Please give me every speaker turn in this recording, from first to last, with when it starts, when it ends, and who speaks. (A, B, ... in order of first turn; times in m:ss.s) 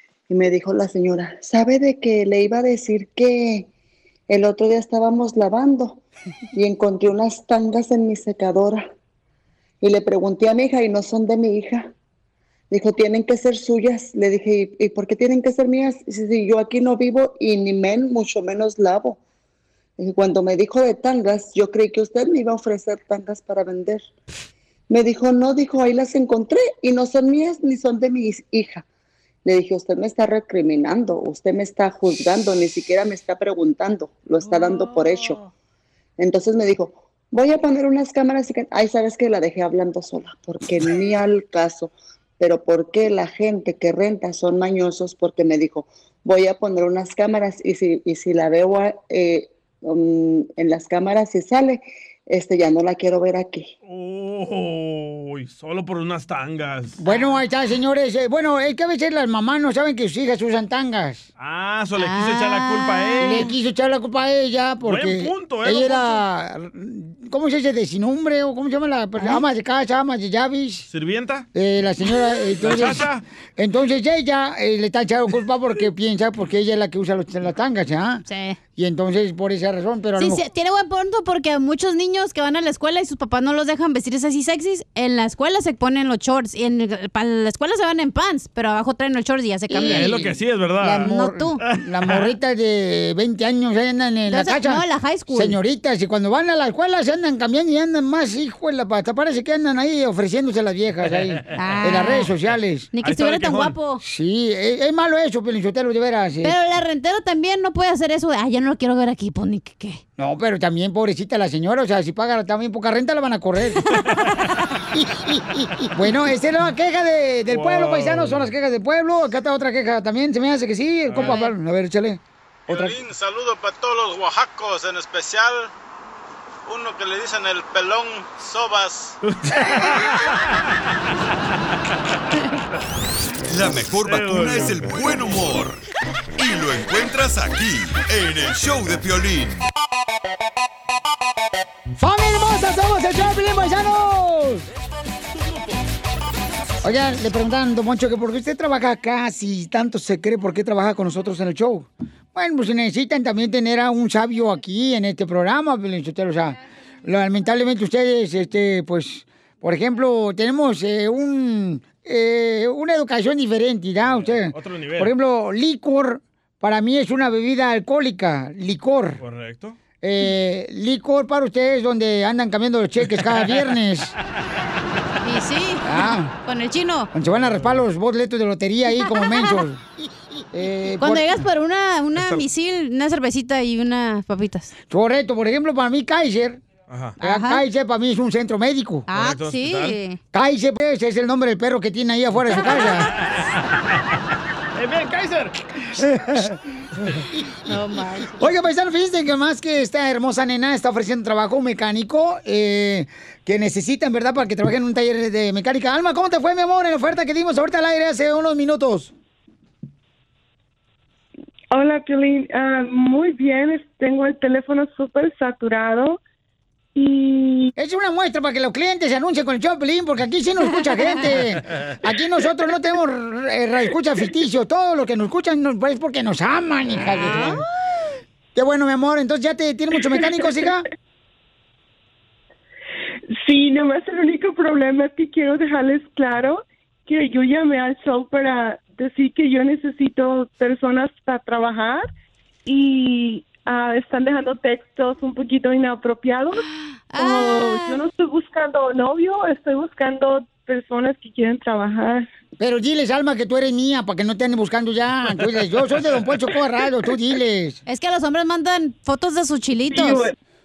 0:00.3-0:03.7 A
0:04.3-0:06.0 A
0:06.5-0:08.9 A
0:09.8-0:11.9 A
0:12.7-0:19.2 A
0:20.0-0:24.0 A
0:24.9-0:28.8 A
0:29.4-0:35.4 A
0:36.2-0:53.7 A
0:53.8-0:57.0 B
0:57.0-1:01.3 C
1:01.4-1:03.5 B
1:02.0-1:03.5 D
1:03.2-1:10.8 C
1:04.8-1:06.2 B
1:10.8-1:11.4 B
1:11.5-1:18.2 C
1:12.6-1:13.2 B
1:18.3-1:18.6 D
1:18.8-1:20.4 C
1:20.2-1:30.2 D
1:29.7-1:42.9 C
1:29.8-1:31.1 B
1:31.0-1:31.6 D
1:31.6-1:32.3 B
1:34.3-1:35.6 D
1:41.1-1:41.4 B
1:41.5-1:42.3 D
1:42.9-1:44.0 D
1:43.0-1:43.8 B
1:44.0-1:46.5 C
1:46.4-1:50.0 D
1:50.2-1:53.8 C
1:54.0-1:54.3 D
1:54.9-2:03.0 C
1:57.5-1:58.5 B
2:01.1-2:01.4 B
2:01.2-2:01.5 D
2:02.7-2:05.7 E
2:06.7-2:09.2 E
2:09.2-2:10.6 B
2:13.5-2:15.8 F
2:14.0-2:15.2 B
2:16.4-2:19.6 F
2:22.0-2:24.6 C
2:26.8-2:49.2 C
2:44.1-2:45.1 B
2:49.2-2:49.8 B
2:50.0-2:54.1 C
2:53.3-2:53.6 B
2:55.2-2:57.1 D
2:55.8-2:56.3 C
2:57.1-2:59.8 C
2:57.2-2:57.8 B
2:59.0-2:59.6 D
3:00.5-3:01.4 C
3:01.0-3:04.7 D
3:04.9-3:06.6 C
3:06.9-3:07.2 B
3:07.2-3:09.1 C
3:07.2-3:07.6 D
3:09.1-3:10.2 D
3:09.1-3:10.0 B
3:10.3-3:13.1 C
3:12.5-3:12.9 D
3:13.2-3:14.0 B
3:14.8-3:15.6 B
3:15.9-3:16.6 C
3:17.7-3:18.5 D
3:18.4-3:29.1 C
3:31.7-3:36.2 G
3:36.9-3:37.7 G
3:37.8-3:47.6 C
3:47.1-3:47.6 D
3:48.5-3:50.9 C
3:53.3-4:02.1 G
4:02.6-4:06.6 G
4:06.6-4:08.0 D
4:07.2-4:12.3 G
4:12.6-4:17.8 C
4:17.9-4:20.2 D
4:19.9-4:20.3 G